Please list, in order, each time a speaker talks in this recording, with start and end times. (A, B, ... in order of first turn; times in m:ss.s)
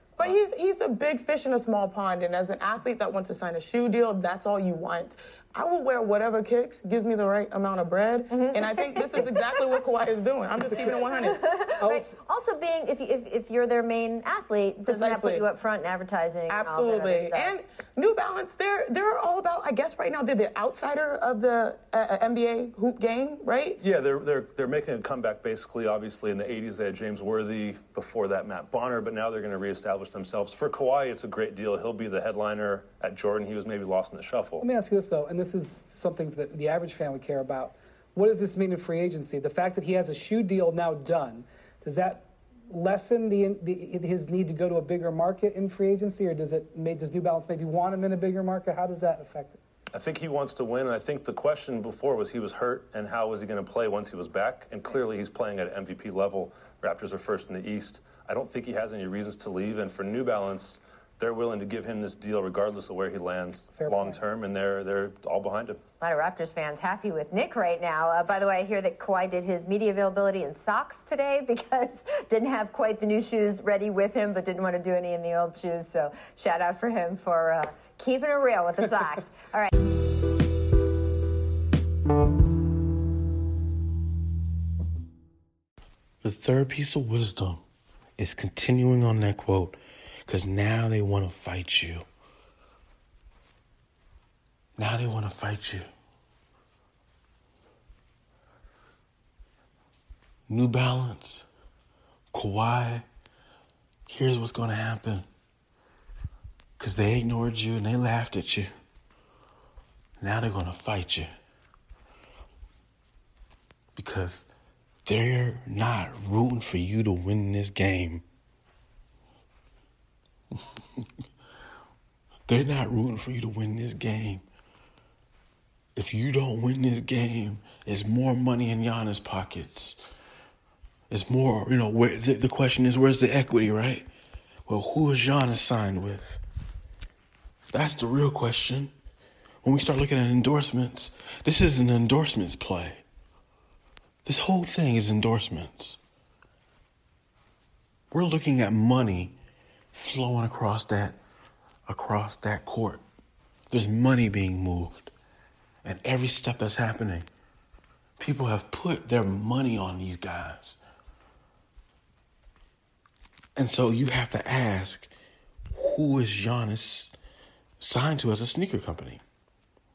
0:00.2-0:11.4 A
0:08.3-0:09.8 B
0:11.1-0:17.6 B
0:11.8-0:12.1 C
0:14.8-0:15.5 A
0:16.5-0:23.8 A
0:23.8-0:34.6 D
0:34.6-0:49.6 C
0:49.9-1:05.8 D
1:03.8-1:04.2 C
1:06.0-1:19.7 B
1:26.2-1:27.6 E
1:28.2-1:32.0 E
1:34.8-1:35.9 E
1:40.5-1:41.5 E
1:42.3-1:43.1 E
1:44.1-1:45.3 E
1:46.8-1:48.7 E
1:50.2-1:51.3 E
1:54.0-1:54.4 E
1:55.1-1:58.2 E
2:02.5-2:04.4 E
2:06.0-2:10.0 E
2:11.1-2:14.1 E
2:14.7-2:16.4 E
2:17.7-2:18.9 E
2:19.6-2:23.0 E
2:24.3-2:26.0 E
2:28.1-2:29.4 E
2:29.9-2:31.2 E
2:31.9-2:33.0 E
2:33.7-2:35.1 E
2:35.8-2:37.3 E
2:38.2-2:40.8 E
2:43.6-2:45.1 E
2:45.7-2:47.1 E
2:47.8-2:49.2 E